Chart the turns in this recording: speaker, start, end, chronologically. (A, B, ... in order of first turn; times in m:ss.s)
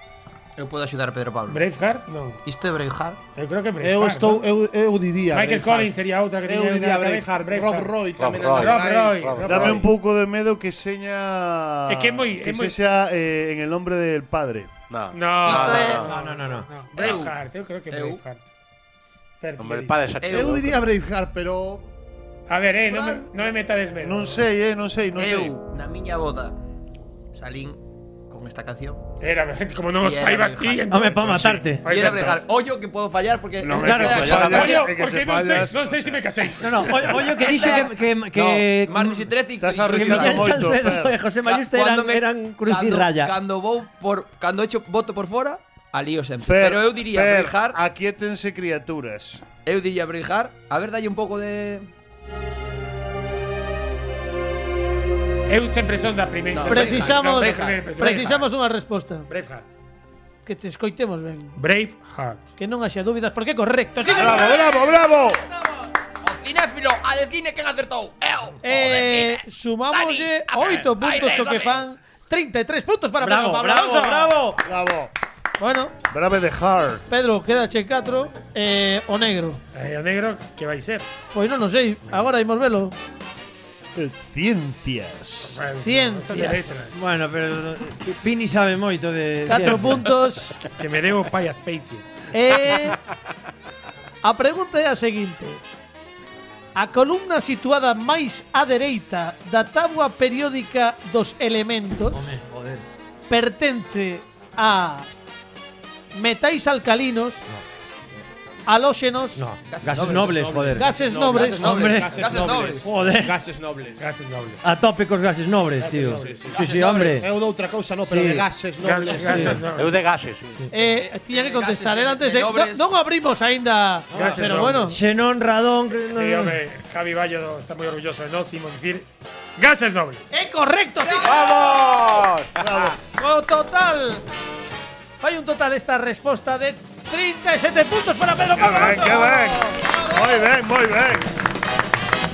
0:00.6-0:01.6 A
0:01.5-0:02.4 B
0:02.4-0:03.2 A
0:03.4-0:04.5 B
0:03.8-0:05.9 C
0:05.3-0:08.0 B
0:06.4-0:09.3 C
0:08.1-0:09.9 D
0:08.5-0:09.9 B
0:09.4-0:14.8 E
0:11.9-0:12.8 B
0:14.9-0:16.1 D
0:15.1-0:18.4 B
0:15.4-0:16.1 A
0:16.0-0:16.7 F
0:17.0-0:17.4 A
0:17.9-0:18.2 A
0:19.4-0:20.2 B
0:19.6-0:20.9 D
0:20.2-0:20.6 A
0:20.2-0:21.9 C
0:22.5-0:24.4 B
0:24.0-0:25.6 E
0:25.2-0:26.6 A
0:27.3-0:27.8 A
0:28.3-0:29.0 A
0:29.2-0:32.4 B
0:30.0-0:31.0 A
0:30.9-0:32.0 F
0:31.3-0:32.4 E
0:31.8-0:34.9 A
0:33.6-0:36.2 E
0:33.7-0:34.4 F
0:34.1-0:34.7 D
0:34.3-0:37.5 B
0:36.6-0:39.3 F
0:37.4-0:40.7 A
0:39.6-0:41.2 E
0:39.9-0:43.3 F
0:41.4-0:47.8 A
0:46.4-0:49.5 E
0:49.7-0:51.9 A
0:55.5-0:58.5 B
0:56.5-0:57.9 A
0:56.7-0:59.3 G
0:59.3-0:59.7 B
1:00.4-1:01.6 G
1:01.6-1:02.4 B
1:02.6-1:04.9 G
1:04.1-1:05.5 E
1:06.2-1:11.8 A
1:08.6-1:14.4 G
1:13.2-1:14.6 F
1:14.6-1:15.1 E
1:15.6-1:16.0 G
1:16.1-1:17.0 E
1:17.1-1:19.6 G
1:19.7-1:21.1 B
1:21.3-1:23.0 G
1:24.0-1:25.6 E
1:25.4-1:27.0 B
1:25.8-1:26.9 G
1:26.9-1:30.2 F
1:29.5-1:30.6 G
1:30.8-1:32.1 B
1:32.3-1:33.0 G
1:34.2-1:35.6 G
1:36.8-1:42.4 G
1:42.1-1:42.8 F
1:43.3-1:45.1 G
1:46.1-1:47.4 G
1:48.7-1:49.5 G
1:49.4-1:53.4 F
1:49.7-1:50.6 A
1:50.0-1:54.0 C
1:50.7-1:51.9 G
1:51.3-1:52.9 A
1:52.2-1:52.5 B
1:54.0-1:54.6 B
1:54.6-1:57.3 F
1:55.8-1:56.5 B
1:56.2-1:59.7 C
1:56.5-1:57.2 A
1:58.1-1:58.5 F
1:58.8-2:00.0 B
1:59.2-1:59.6 F
1:59.6-2:00.6 D
2:00.7-2:05.0 G
2:00.8-2:02.9 A
2:04.1-2:06.6 F
2:04.1-2:04.8 B
2:06.1-2:10.3 B
2:10.3-2:11.4 G
2:11.0-2:12.1 A
2:11.3-2:12.6 D
2:12.6-2:13.0 E
2:13.1-2:14.2 G
2:15.2-2:19.6 G
2:18.6-2:21.3 E